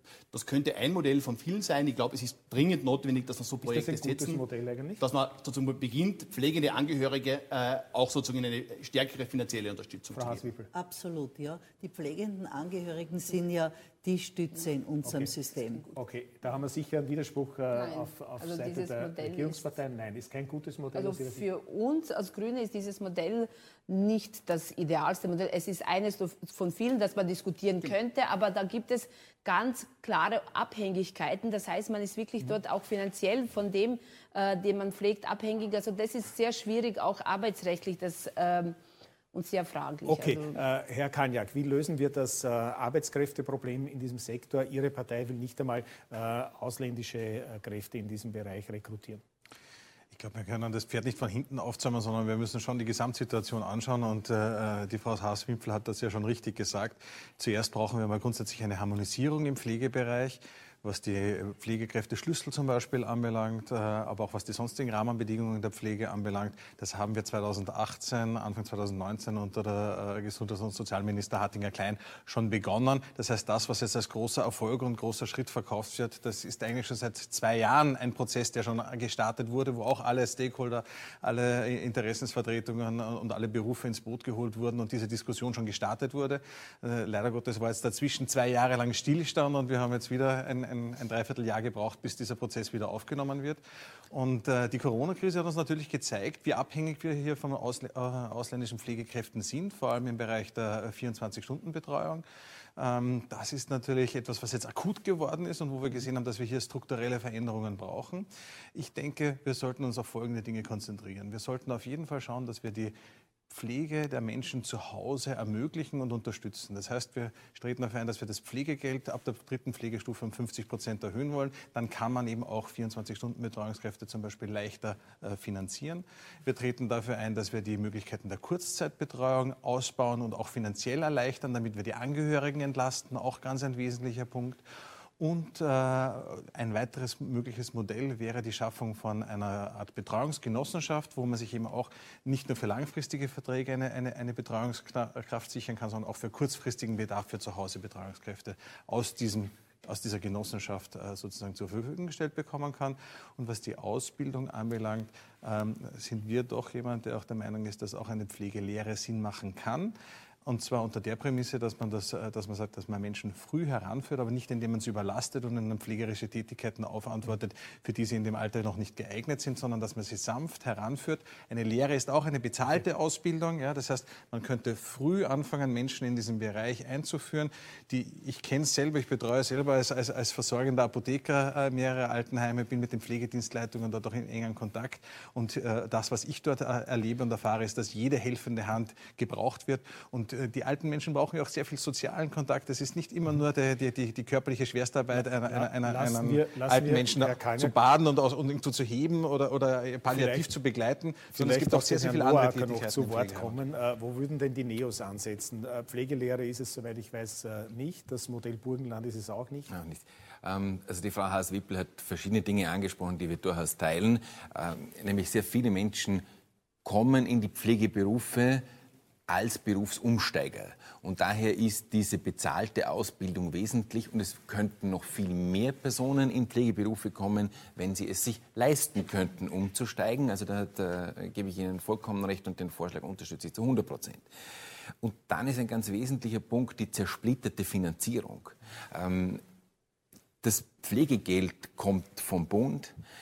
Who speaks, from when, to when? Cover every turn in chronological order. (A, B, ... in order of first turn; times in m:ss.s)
0:00.3-0:04.4 A
0:03.6-0:05.0 B
0:05.0-0:10.4 A
0:10.1-0:10.7 B
0:10.7-0:15.8 C
0:15.0-0:15.3 B
0:15.9-0:21.5 B
0:17.7-0:19.7 D
0:20.9-0:38.8 D
0:39.3-0:40.6 D
0:40.0-0:49.2 B
0:50.1-1:42.2 E
1:42.8-1:52.9 E
1:53.5-2:14.6 E
2:15.2-2:39.9 E
2:40.4-3:23.6 E
3:15.1-3:17.8 B
3:20.1-3:20.5 B
3:21.3-3:29.7 B
3:29.7-3:36.2 F
3:36.8-3:38.6 F
3:39.3-3:54.3 F
3:55.0-3:59.4 F
4:00.4-4:03.0 F